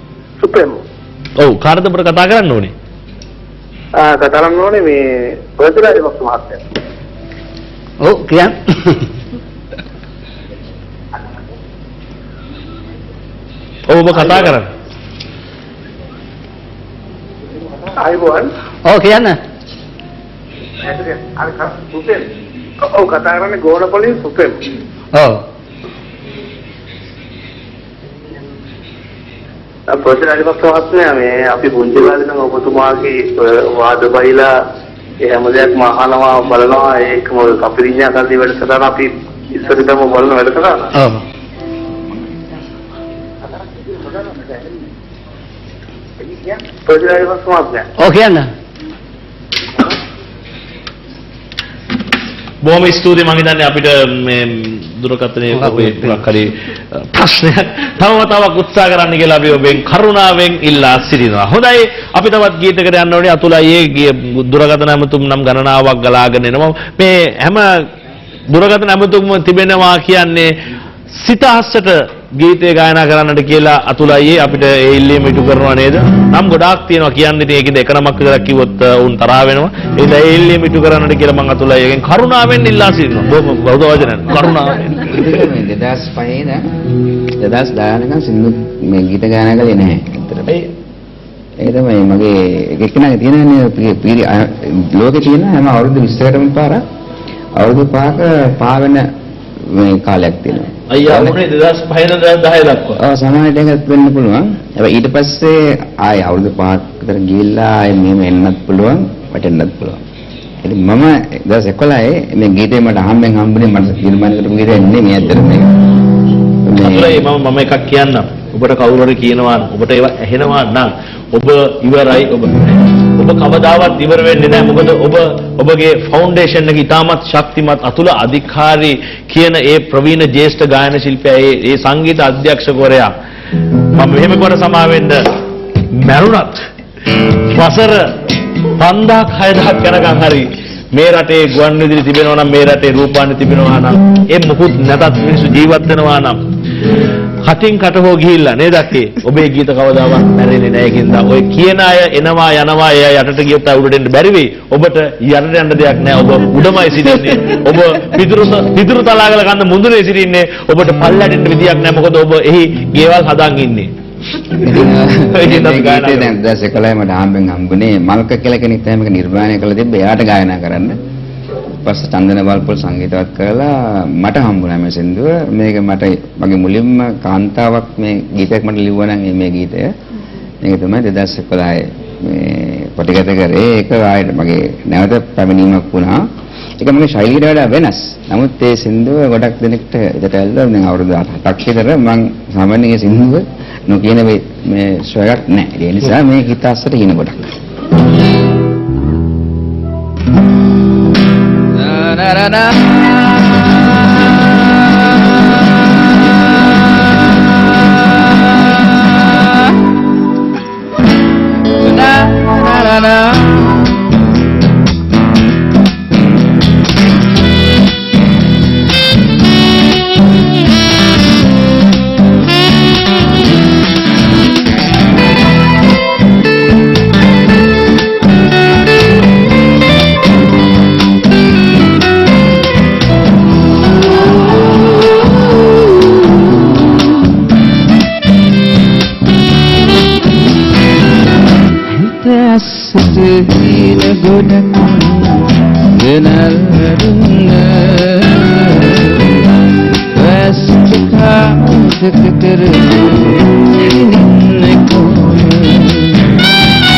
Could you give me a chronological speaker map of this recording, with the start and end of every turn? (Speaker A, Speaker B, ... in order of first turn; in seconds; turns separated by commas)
Speaker A: 0.4-0.8, Speaker B: 1.4-2.7, Speaker A: 4.0-5.0, Speaker A: 5.6-6.6, Speaker C: 8.0-9.1, Speaker B: 13.9-14.7, Speaker A: 14.2-14.5, Speaker A: 17.9-18.5, Speaker C: 18.9-19.4, Speaker A: 20.9-22.3, Speaker A: 22.8-24.7, Speaker C: 25.1-25.4, Speaker A: 29.9-34.5, Speaker A: 35.2-40.9, Speaker C: 40.9-41.2, Speaker A: 43.9-44.7, Speaker A: 46.3-47.9, Speaker C: 48.0-48.5, Speaker B: 52.6-67.9, Speaker C: 55.5-56.2, Speaker B: 68.5-70.5, Speaker B: 71.1-85.2, Speaker D: 84.9-86.7, Speaker D: 87.4-90.6, Speaker D: 91.6-96.8, Speaker D: 97.6-99.1, Speaker D: 99.6-101.4, Speaker B: 100.9-103.0, Speaker D: 103.0-110.0, Speaker D: 110.6-115.7, Speaker D: 116.7-117.2, Speaker B: 116.8-133.1, Speaker B: 133.9-135.3, Speaker B: 136.0-136.7, Speaker B: 137.5-138.1, Speaker B: 138.8-146.4, Speaker B: 147.4-163.9, Speaker D: 164.6-171.0, Speaker B: 165.3-166.3, Speaker D: 171.8-179.9, Speaker D: 180.6-186.2, Speaker D: 186.8-197.4, Speaker E: 201.8-203.7, Speaker E: 208.2-209.7, Speaker E: 211.8-213.9, Speaker E: 241.9-249.3, Speaker E: 250.1-256.3